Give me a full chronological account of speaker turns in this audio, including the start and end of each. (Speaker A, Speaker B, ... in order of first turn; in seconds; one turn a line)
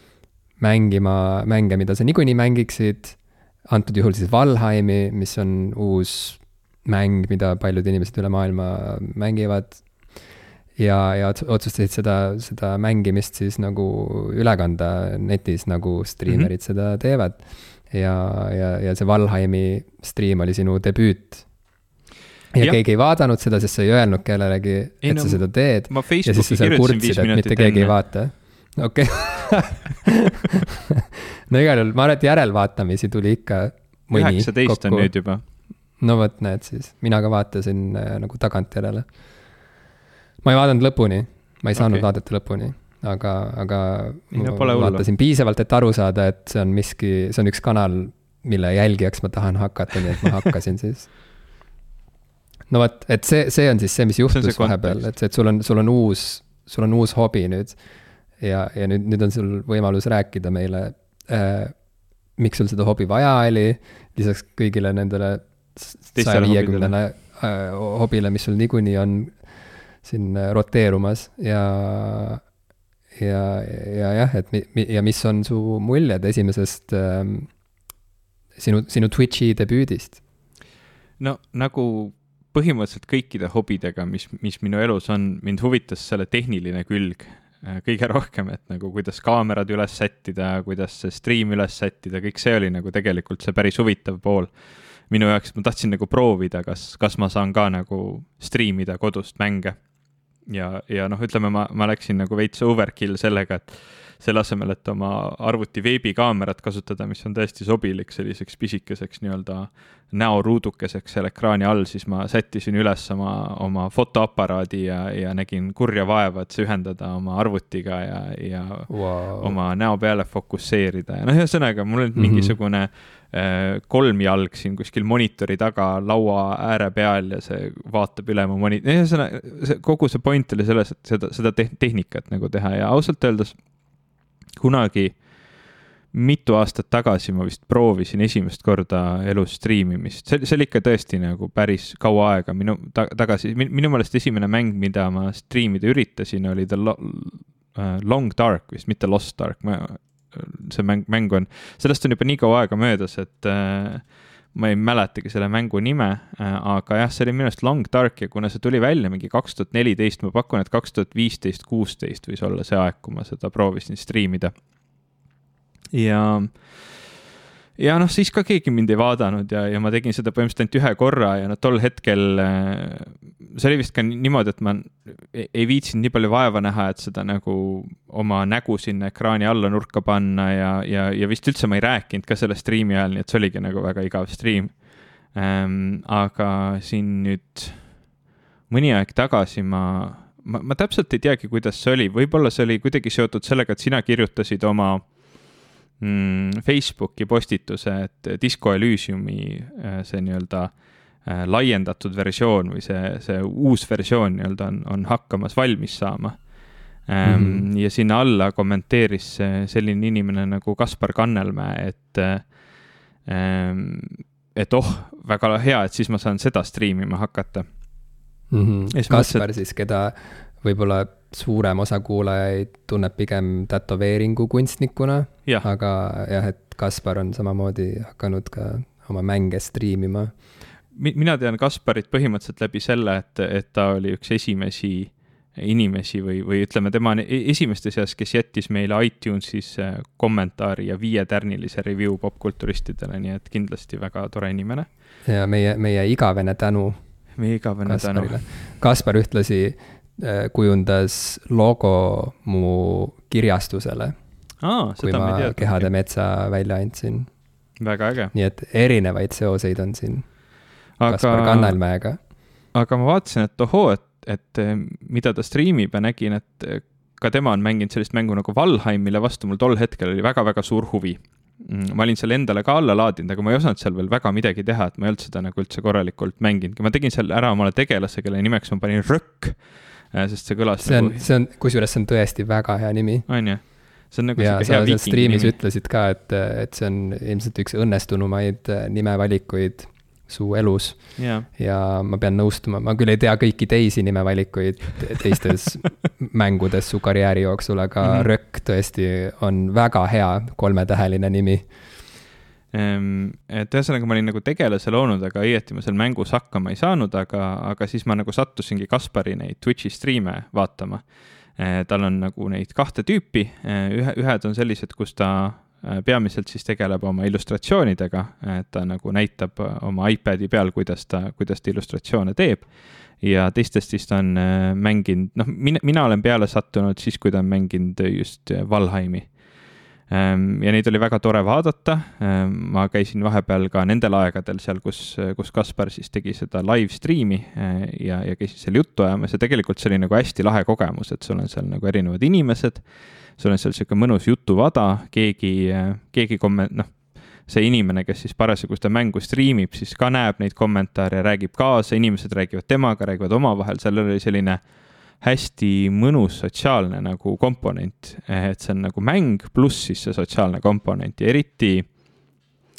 Speaker A: 0.6-9.8
Speaker A: 10.8-21.4
Speaker A: 22.5-30.1
Speaker B: 25.0-27.9
Speaker A: 31.5-35.1
Speaker B: 34.1-35.4
Speaker A: 36.0-39.1
Speaker A: 40.4-51.1
Speaker B: 41.7-42.0
Speaker B: 44.3-45.0
Speaker A: 52.7-57.8
Speaker B: 54.3-55.1
Speaker A: 58.4-61.8
Speaker A: 62.3-69.4
Speaker B: 66.1-66.9
Speaker A: 70.0-72.4
Speaker A: 73.1-77.5
Speaker A: 78.5-80.2
Speaker B: 81.2-94.5
Speaker B: 95.1-99.8
Speaker B: 100.5-133.6
Speaker A: 118.9-119.6
Speaker A: 122.2-122.5
Speaker B: 134.6-135.2
Speaker B: 136.1-164.5
Speaker B: 165.9-167.0
Speaker B: 167.8-188.0
Speaker B: 188.7-195.2
Speaker B: 196.0-206.5
Speaker B: 207.0-212.6
Speaker A: 207.2-207.7
Speaker B: 213.2-217.7
Speaker A: 218.5-230.3
Speaker B: 218.9-219.5
Speaker B: 230.9-244.9
Speaker A: 245.2-247.0
Speaker B: 247.4-248.4
Speaker A: 247.8-254.2
Speaker B: 254.6-255.9
Speaker A: 255.0-257.3
Speaker B: 257.8-258.3
Speaker A: 258.3-260.4
Speaker B: 261.0-261.8
Speaker A: 261.0-262.2
Speaker B: 262.7-281.2
Speaker A: 280.8-283.7
Speaker B: 283.3-285.6
Speaker A: 284.4-301.7
Speaker B: 291.2-291.5
Speaker B: 298.0-298.3
Speaker B: 302.7-329.4
Speaker B: 330.1-361.9